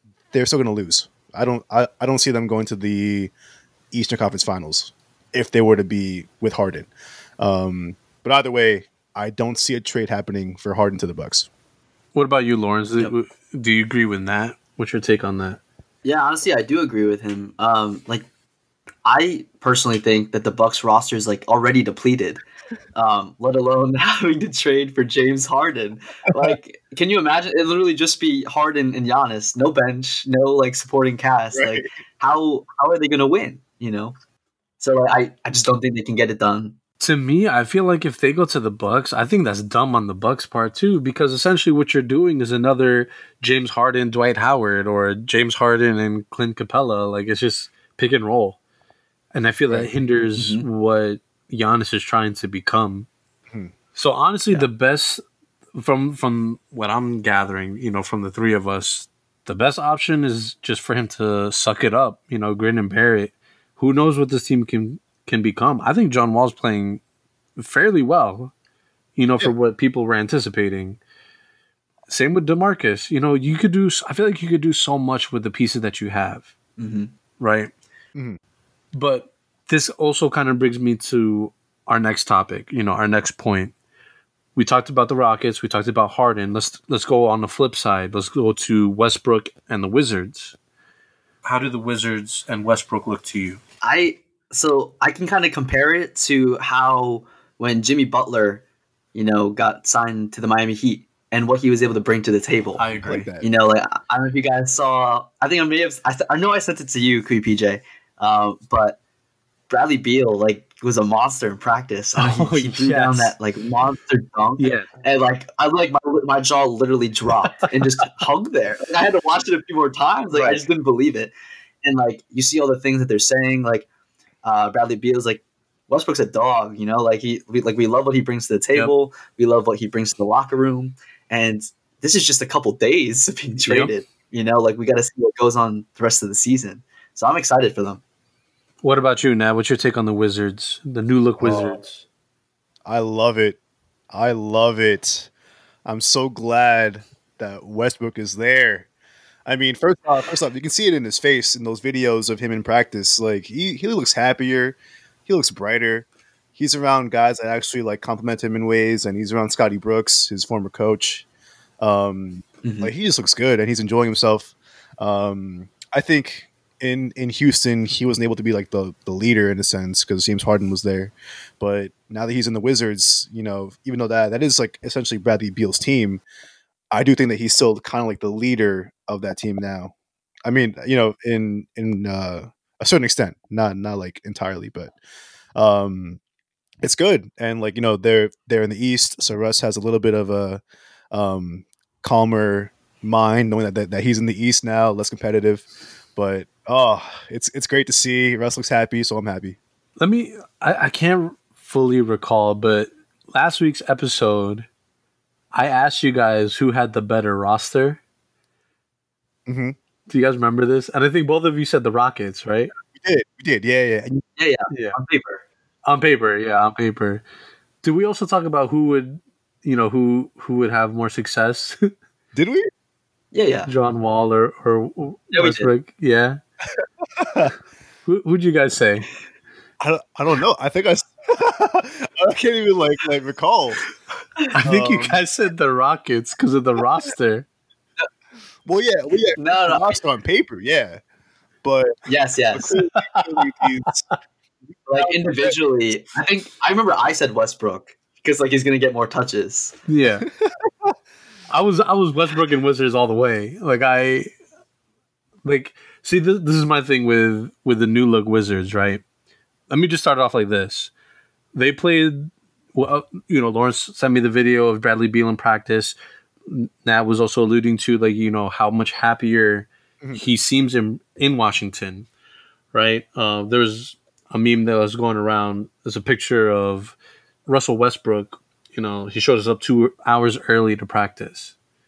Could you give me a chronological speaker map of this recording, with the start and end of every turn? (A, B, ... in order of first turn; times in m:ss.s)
0:00.3-0:03.3 A
0:03.9-0:11.5 A
0:12.1-0:15.6 B
0:16.0-0:18.3 C
0:19.1-0:22.4 C
0:23.0-0:34.2 C
0:31.5-0:31.9 A
0:34.8-0:36.8 C
0:37.0-0:48.6 B
0:49.3-0:53.1 B
0:50.4-0:50.6 C
0:54.0-0:55.2 B
0:55.8-1:07.0 B
1:07.6-1:08.5 B
1:09.2-1:11.0 B
1:12.1-1:16.5 B
1:16.8-1:17.1 C
1:17.4-1:17.7 B
1:18.9-1:23.7 B
1:24.6-1:30.6 B
1:31.4-1:33.6 B
1:33.8-1:38.6 C
1:39.1-1:49.0 C
1:42.8-1:43.3 B
1:43.0-1:43.5 A
1:49.7-2:03.9 C
1:52.2-1:53.4 B
1:54.6-1:54.9 B
2:00.3-2:00.6 A
2:04.4-2:18.0 C
2:13.7-2:13.9 B
2:18.8-2:22.0 B
2:21.4-2:21.8 A
2:22.8-2:23.6 A
2:24.1-2:25.3 A
2:25.9-2:28.9 A
2:29.5-2:41.3 A
2:41.8-2:56.2 A
2:42.6-2:42.9 C
2:56.9-2:59.9 A
3:00.4-3:04.9 A
3:05.6-3:06.2 A
3:06.8-3:10.6 A
3:11.1-3:19.6 A
3:20.0-3:24.7 B
3:25.5-3:28.0 B
3:29.5-3:29.8 A
3:30.1-3:32.7 B
3:32.9-3:34.2 A
3:34.4-3:35.4 C
3:34.7-3:35.0 B
3:35.9-3:37.2 B
3:37.8-3:41.9 B
3:42.3-3:42.7 A
3:43.3-3:43.7 C
3:43.7-3:46.4 B
3:45.3-3:45.7 C
3:47.2-3:47.5 A
3:48.1-3:49.1 B
3:49.8-3:53.8 A
3:54.5-3:57.5 B
3:54.6-3:55.2 A
3:58.7-4:01.0 A
3:59.4-4:00.0 C
4:01.6-4:01.9 A
4:02.1-4:02.8 C
4:02.5-4:04.1 A
4:04.9-4:09.8 C
4:05.0-4:05.6 A
4:09.9-4:10.3 B
4:10.4-4:11.0 A
4:11.5-4:14.3 B
4:15.4-4:19.0 B
4:19.7-4:20.9 B
4:21.5-4:32.1 B
4:32.7-4:37.0 B
4:37.5-4:41.6 B